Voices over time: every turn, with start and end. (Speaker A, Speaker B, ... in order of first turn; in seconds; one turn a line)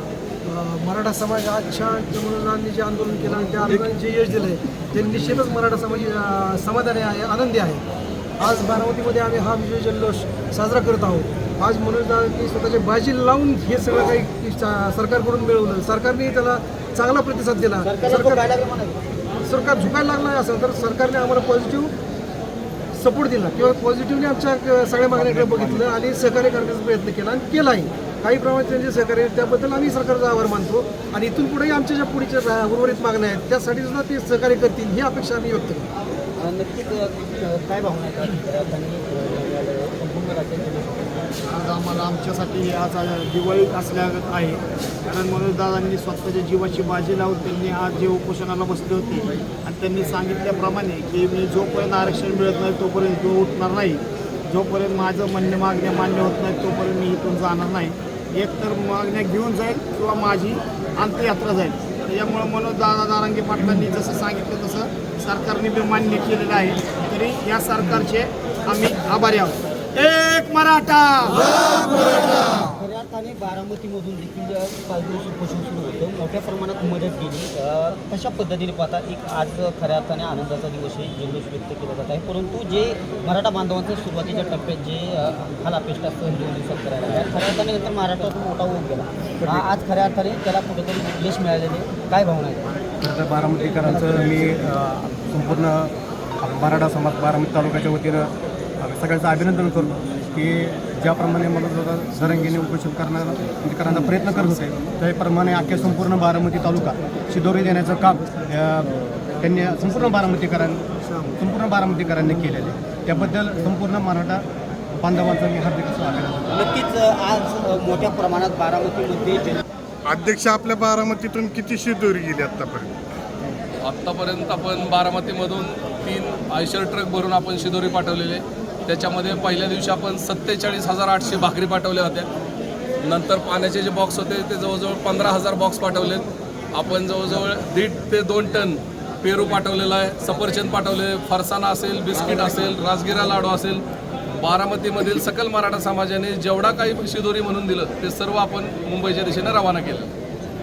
Speaker A: 0.4-7.8
Speaker A: 8.4-18.4
Speaker B: 17.8-19.0
Speaker A: 19.5-21.9
Speaker A: 22.9-35.9
Speaker C: 25.4-25.8
Speaker B: 36.4-41.2
Speaker D: 41.5-71.8
Speaker B: 72.6-92.7
Speaker C: 93.0-98.3
Speaker C: 98.8-110.8
Speaker C: 111.4-114.4
Speaker C: 115.0-116.5
Speaker B: 116.5-119.6
Speaker E: 120.1-122.9
Speaker F: 123.8-132.3
Speaker F: 133.0-143.8
Speaker F: 144.3-150.1